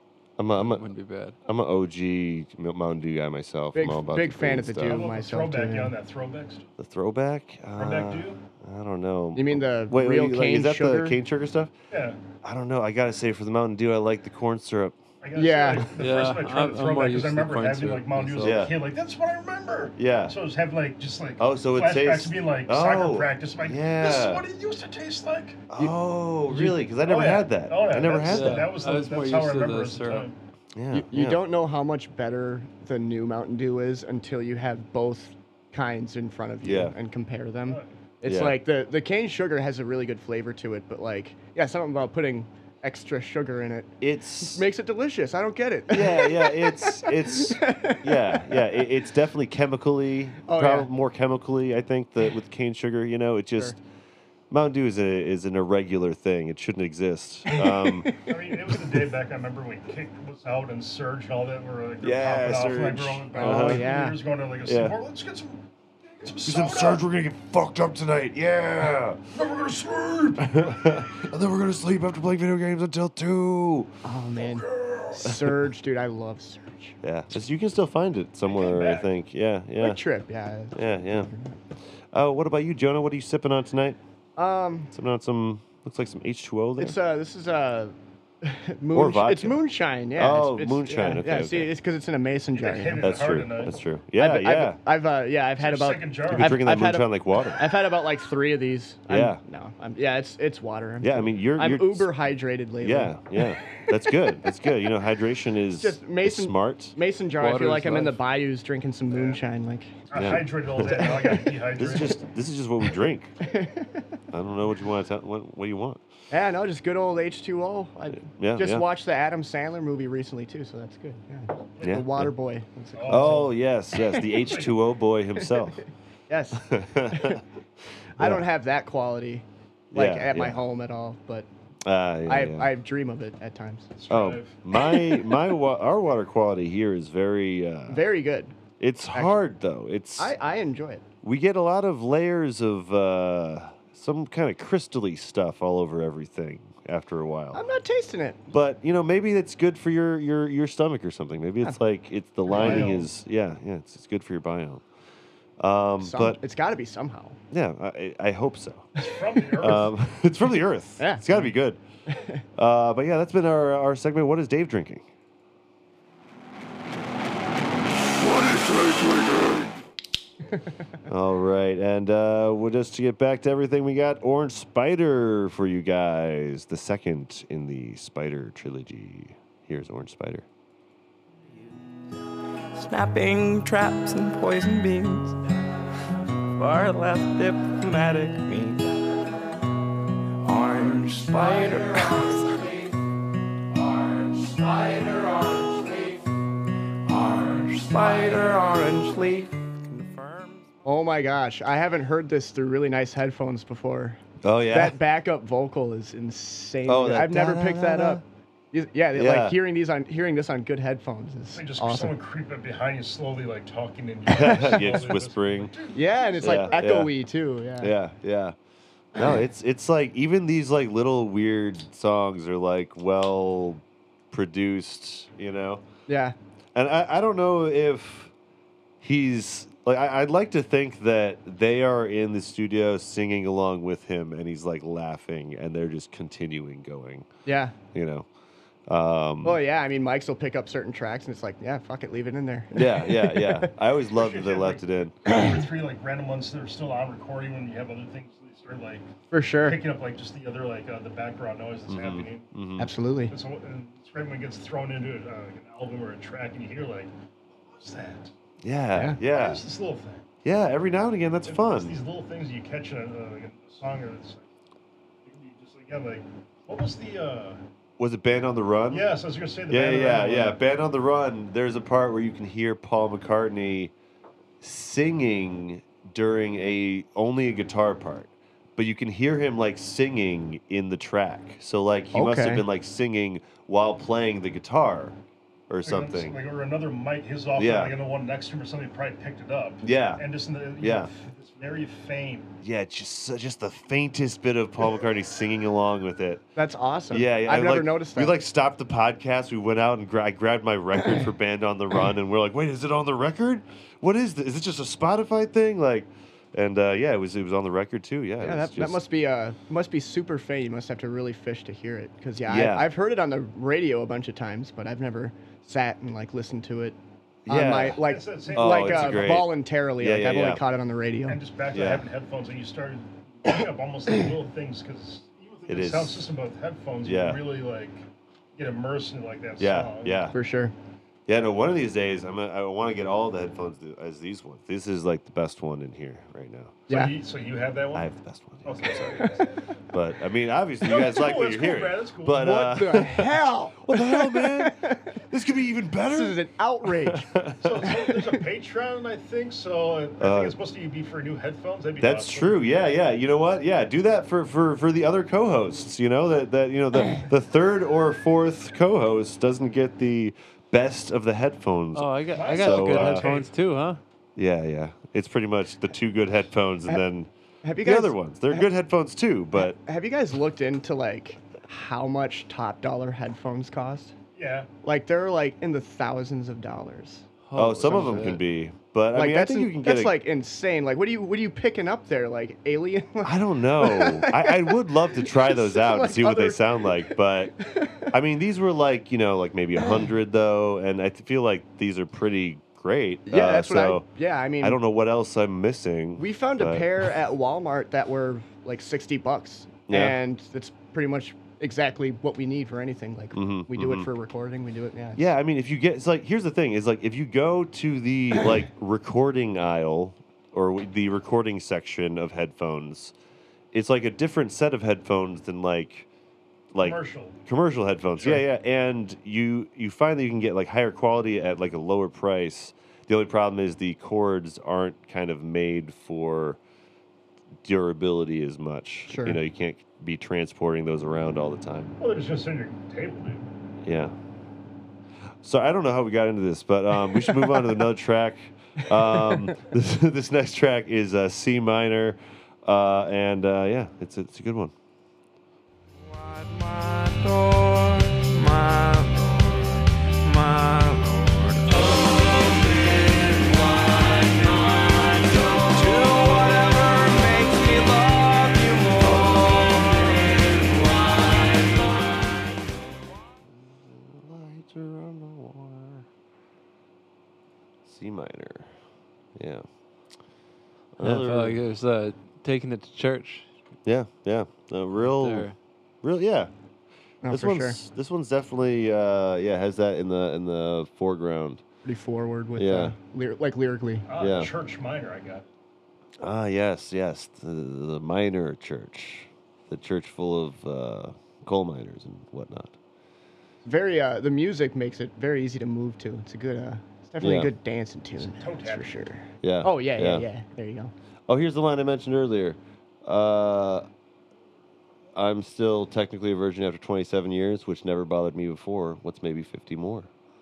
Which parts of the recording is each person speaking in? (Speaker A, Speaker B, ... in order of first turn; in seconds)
Speaker A: 0.4-0.8, 1.4-5.0, 6.8-11.7, 12.4-15.0, 18.4-18.7, 20.0-20.3, 21.4-24.4, 25.7-28.7, 30.8-31.4, 36.6-36.9, 38.2-38.6, 44.0-44.6, 45.9-53.8, 54.5-58.2, 62.0-63.9, 64.6-65.0, 66.4-69.3, 70.4-73.9, 75.2-75.6, 77.0-80.0, 80.7-81.3, 82.1-84.0, 84.9-87.0, 88.9-89.6, 90.1-91.7, 93.0-94.8, 96.3-97.7, 99.1-99.4, 101.0-102.1, 102.8-106.9, 110.1-111.2, 111.8-113.4, 114.3-116.0, 118.2-118.8, 121.8-122.3, 123.1-125.8, 126.5-127.4, 128.2-128.4, 129.9-130.6, 131.8-132.7, 134.1-138.1, 138.8-140.3, 141.2-147.6, 148.5-154.8, 155.6-156.4, 157.5-158.9, 159.6-161.8, 162.5-165.0, 171.0-180.4, 204.4-205.0, 206.8-208.2, 209.1-209.6, 214.3-215.7, 216.4-217.1, 217.8-218.6, 219.1-225.8, 226.7-228.3, 229.0-237.2, 237.9-238.3, 238.9-239.6, 242.7-245.1, 251.9-252.9, 258.6-259.6, 260.4-261.9, 268.0-269.1, 269.7-273.9, 274.6-285.2, 285.7-286.3, 287.6-287.9, 289.8-290.2, 290.8-291.1, 292.6-296.4, 297.1-309.0, 312.4-312.9, 317.4-320.6, 321.7-322.1, 325.7-326.3, 327.0-327.4, 329.6-330.4, 331.3-337.0, 337.9-346.4, 346.9-347.9, 350.2-350.6, 352.0-363.3, 364.4-369.8, 377.5-380.2, 383.2-387.5, 388.1-394.1, 394.6-397.1, 399.9-400.2, 403.3-404.1, 405.1-413.1, 413.7-416.1, 416.7-426.6, 427.6-431.9, 433.8-434.1, 435.4-444.7, 459.0-459.9, 463.5-466.1, 467.8-468.7, 469.4-469.6, 470.9-471.6, 473.9-475.5, 476.0-476.5, 477.3-481.6, 482.6-482.9, 484.2-484.5, 486.2-492.8, 497.2-497.5, 499.4-500.2, 501.3-503.9, 505.1-510.1
Speaker B: 0.5-1.4, 15.9-18.6, 28.2-30.3, 107.4-108.2, 361.9-364.0, 377.5-378.4, 471.0-473.5, 475.0-475.5
Speaker C: 3.7-5.9, 9.3-11.2, 15.3-15.9, 30.9-48.8, 50.4-50.9, 57.5-58.3, 63.3-64.2, 74.0-77.0, 79.8-81.6, 84.4-84.9, 86.8-93.0, 94.2-103.2, 105.8-109.9, 110.8-111.5, 113.4-114.0, 116.3-123.5, 125.4-127.4, 128.2-131.5, 132.2-133.9, 134.7-135.2, 137.9-138.5, 140.2-141.0, 147.5-148.4, 152.6-152.9, 156.0-157.4, 161.0-161.2, 162.1-162.4, 200.8-212.1, 215.9-217.9, 226.1-226.3, 237.4-237.7, 239.4-243.7, 245.2-245.6, 249.3-249.8, 252.8-253.3, 258.9-259.2, 282.1-282.6, 296.6-298.3, 308.4-321.4, 330.3-330.7, 336.9-337.1, 342.4-345.1, 346.1-347.3, 347.9-348.3, 367.6-368.7, 369.6-374.1, 374.8-377.2, 379.1-388.1, 393.3-394.8, 396.2-405.2, 429.1-429.4, 477.2-477.8, 481.8-484.1, 493.6-500.9
Speaker D: 4.8-6.7, 7.8-8.4, 11.9-12.2, 15.2-25.7, 26.9-30.4, 58.2-65.6, 66.1-67.0, 69.3-71.0, 74.7-75.1, 78.4-79.1, 92.5-93.8, 95.6-96.6, 109.1-109.4, 110.1-112.2, 121.8-122.0, 122.9-123.5, 124.2-124.7, 133.9-134.6, 152.5-153.1, 158.9-159.9, 211.5-216.8, 244.1-249.1, 249.6-252.5, 253.3-258.3, 259.3-260.2, 261.4-264.5, 265.2-267.6, 268.9-270.6, 285.8-292.5, 317.9-319.4, 321.3-328.0, 328.6-330.2, 336.9-338.1, 338.6-339.6, 340.8-342.5, 347.6-352.6, 362.3-363.5, 374.4-374.7, 416.8-417.4, 418.2-418.4, 432.0-433.5, 484.1-485.5, 498.2-498.9
Speaker E: 182.7-185.4, 186.6-188.9, 190.4-192.9, 193.7-196.3, 197.0-200.7, 445.9-462.3